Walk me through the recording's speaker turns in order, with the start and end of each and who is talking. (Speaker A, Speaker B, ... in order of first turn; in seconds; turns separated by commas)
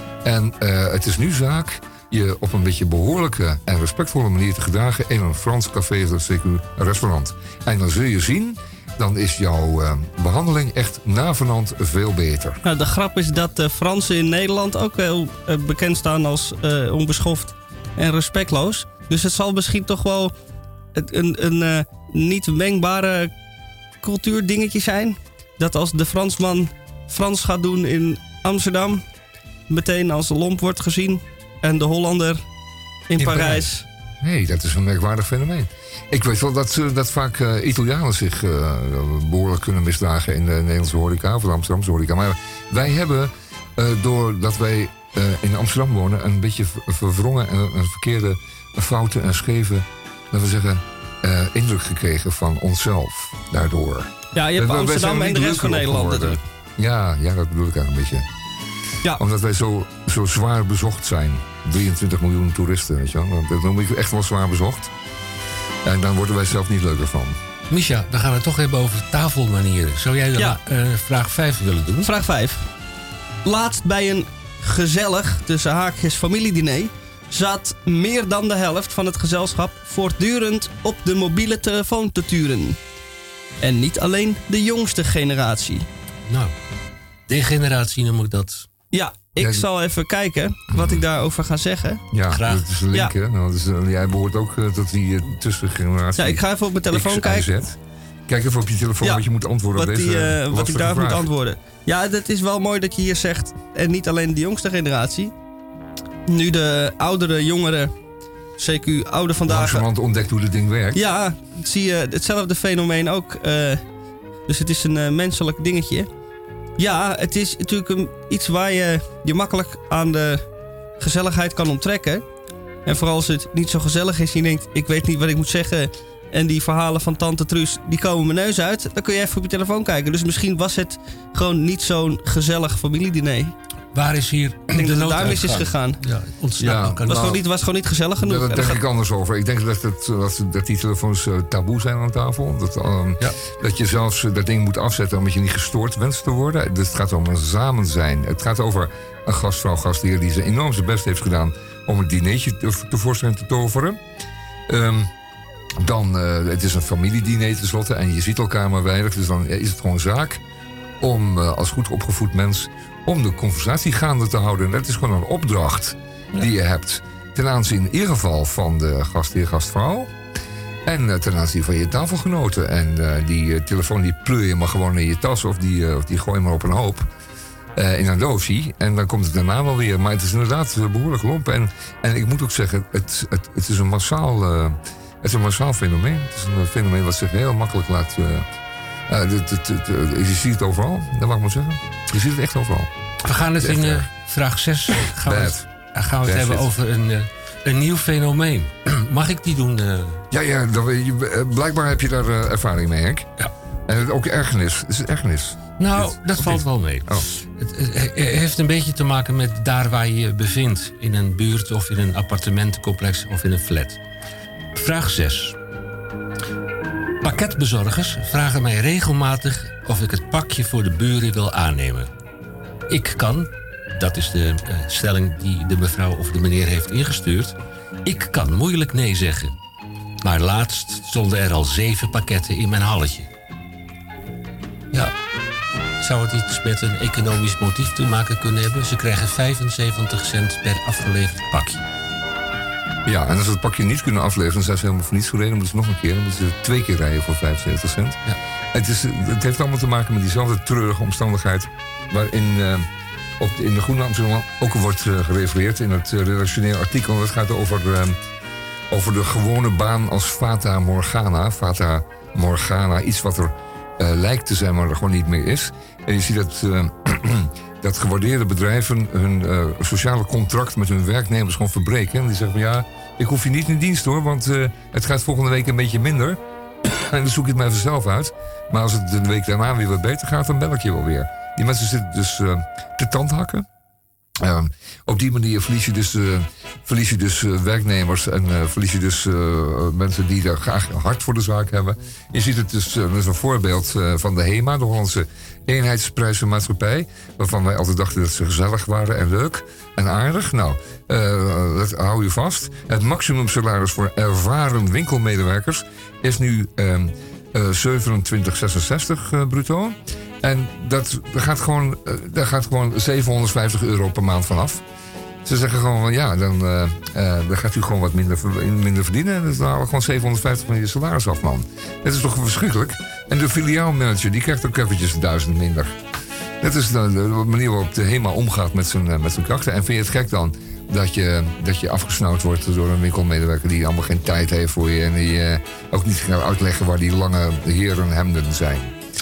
Speaker A: 0.2-12.6, Speaker B: 12.6-20.3, Speaker B: 20.9-23.3, Speaker B: 24.0-29.0, Speaker B: 29.7-32.4, Speaker B: 33.1-33.9, Speaker A: 33.2-58.3, Speaker B: 54.3-56.4, Speaker A: 59.1-64.9, Speaker A: 65.8-67.4, Speaker C: 67.7-72.1, Speaker B: 72.0-72.7, Speaker B: 73.5-82.8, Speaker B: 83.6-85.9, Speaker C: 86.3-86.5, Speaker C: 87.3-88.7, Speaker B: 88.9-92.0, Speaker A: 89.4-89.7, Speaker A: 90.7-91.0, Speaker A: 92.1-101.3, Speaker C: 92.3-92.6, Speaker B: 96.2-97.5, Speaker B: 99.8-105.3, Speaker B: 106.3-107.9, Speaker B: 108.6-109.8, Speaker A: 109.5-111.0, Speaker B: 110.9-113.8, Speaker B: 114.5-116.1, Speaker B: 116.8-120.4, Speaker B: 121.0-122.2, Speaker B: 122.9-133.5, Speaker C: 133.9-137.4, Speaker B: 134.8-136.0, Speaker A: 136.6-137.4, Speaker B: 137.1-138.8, Speaker A: 138.2-154.0, Speaker A: 154.7-155.1, Speaker A: 155.8-160.4, Speaker A: 161.0-170.1, Speaker A: 170.9-177.1, Speaker A: 177.8-188.5, Speaker A: 189.1-192.9, Speaker C: 193.2-200.2, Speaker A: 193.6-194.1, Speaker A: 195.2-195.7, Speaker A: 196.2-196.7, Speaker A: 200.3-203.3, Speaker A: 203.9-207.3, Speaker C: 205.8-214.0, Speaker C: 214.8-215.6, Speaker C: 217.2-222.1, Speaker C: 222.9-229.5, Speaker C: 230.2-233.3, Speaker C: 236.0-241.8, Speaker A: 243.1-248.2, Speaker A: 248.7-252.9, Speaker A: 253.4-258.2, Speaker A: 258.9-283.7, Speaker A: 284.4-314.8, Speaker A: 315.4-325.9, Speaker A: 326.6-338.9